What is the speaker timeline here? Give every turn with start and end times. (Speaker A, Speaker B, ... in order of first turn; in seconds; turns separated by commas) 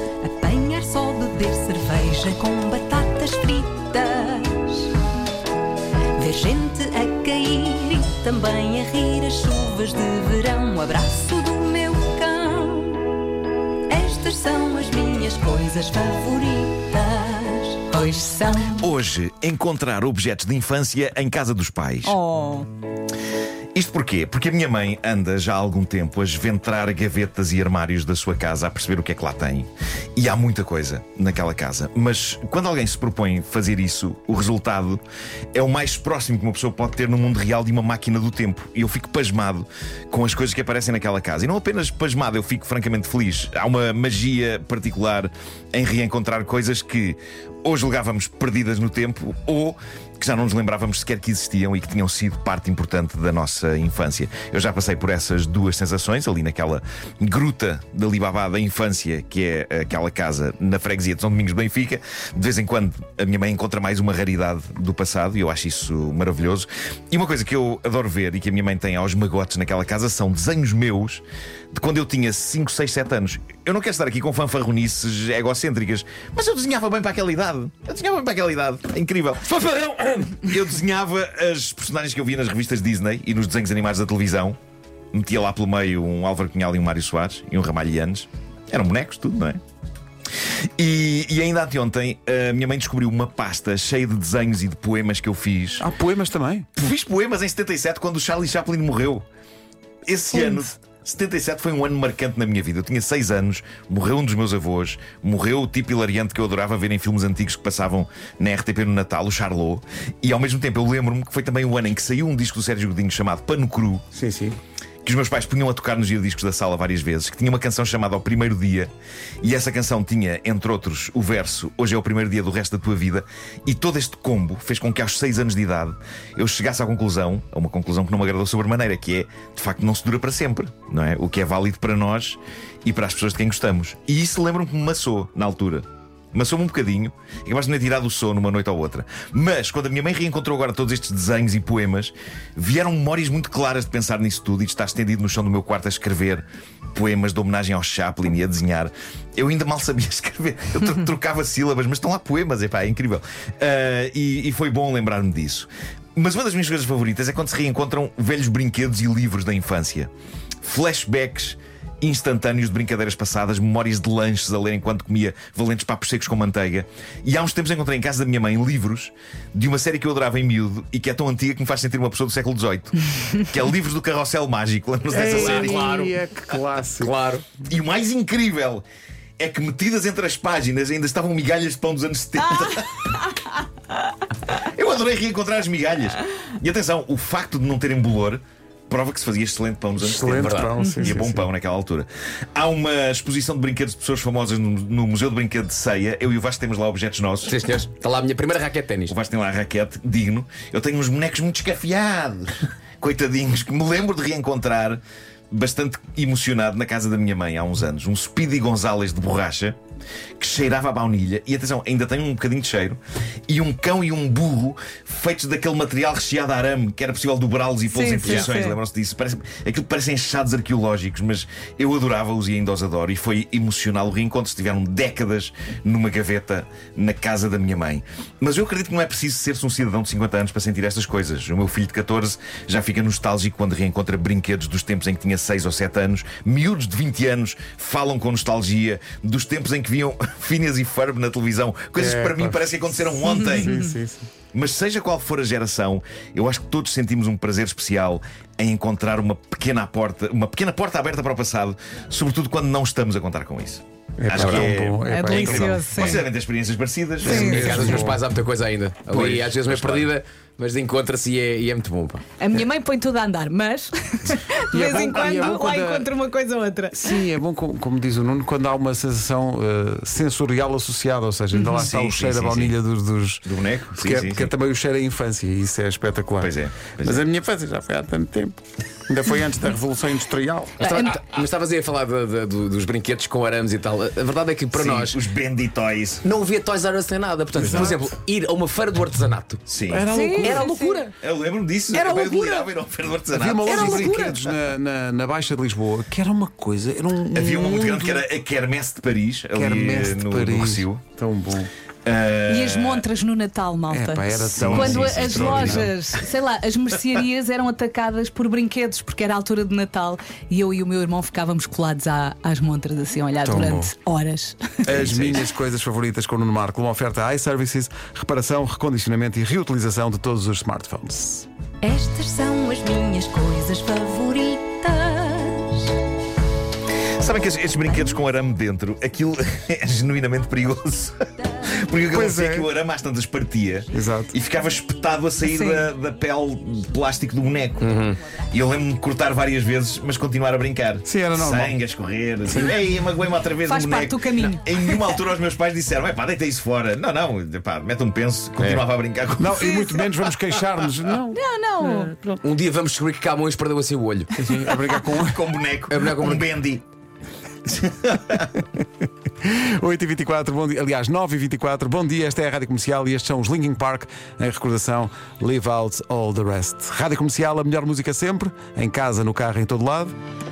Speaker A: 0.2-4.9, Speaker A: 6.2-13.1, Speaker A: 13.9-18.8, Speaker B: 18.7-22.2, Speaker C: 22.0-22.7, Speaker B: 23.7-35.0, Speaker B: 35.5-79.6, Speaker D: 79.5-80.4, Speaker B: 80.3-84.6, Speaker B: 85.1-89.6, Speaker B: 90.8-95.9, Speaker E: 95.8-96.7, Speaker B: 96.8-99.2, Speaker B: 100.1-114.0, Speaker E: 114.1-114.6, Speaker B: 115.0-118.9, Speaker B: 119.4-160.1, Speaker B: 160.6-175.8, Speaker E: 175.1-177.1, Speaker D: 175.3-176.2, Speaker D: 177.0-177.5, Speaker B: 177.6-178.8, Speaker B: 179.4-183.1, Speaker B: 184.5-197.5, Speaker E: 190.0-191.5, Speaker D: 190.2-191.1, Speaker D: 197.4-199.1, Speaker B: 199.1-205.0, Speaker B: 205.5-209.8, Speaker B: 210.4-243.9, Speaker C: 217.9-218.8, Speaker E: 242.0-244.3, Speaker B: 244.5-258.0, Speaker E: 254.2-256.2, Speaker D: 254.3-254.7, Speaker C: 255.1-256.2, Speaker E: 257.2-258.2, Speaker D: 257.2-262.3, Speaker C: 257.3-257.7, Speaker B: 259.1-260.1, Speaker C: 262.4-267.2, Speaker E: 264.7-266.1, Speaker E: 266.9-280.8, Speaker C: 271.5-271.8, Speaker B: 271.8-272.8, Speaker B: 273.4-274.5, Speaker B: 276.4-277.2, Speaker C: 280.8-281.2, Speaker D: 280.8-285.2, Speaker B: 284.7-286.2, Speaker D: 286.2-289.6, Speaker E: 287.6-287.9, Speaker B: 287.6-287.9, Speaker B: 289.7-290.1, Speaker E: 289.9-290.6, Speaker C: 290.1-291.0, Speaker D: 290.4-291.1, Speaker B: 291.2-294.4, Speaker C: 292.0-292.7, Speaker D: 292.0-292.4, Speaker E: 293.3-298.2, Speaker C: 293.7-294.3, Speaker B: 297.3-301.0, Speaker E: 299.5-301.7, Speaker B: 302.0-303.0, Speaker C: 302.5-314.8, Speaker E: 303.9-305.9, Speaker B: 304.4-305.9, Speaker E: 313.4-313.9, Speaker B: 314.9-315.4, Speaker E: 314.9-321.4, Speaker A: 321.8-325.9, Speaker B: 327.2-350.2, Speaker E: 332.1-332.7, Speaker E: 333.9-334.3, Speaker C: 335.4-335.9, Speaker D: 337.8-338.2, Speaker E: 341.0-341.8, Speaker E: 342.5-342.7, Speaker C: 343.6-345.2, Speaker D: 348.6-348.8, Speaker E: 349.4-352.4, Speaker C: 349.6-350.0, Speaker C: 351.3-352.1, Speaker D: 352.4-354.6, Speaker E: 354.4-355.4, Speaker B: 355.0-356.8, Speaker D: 355.9-356.5, Speaker B: 357.6-358.5, Speaker E: 359.4-370.1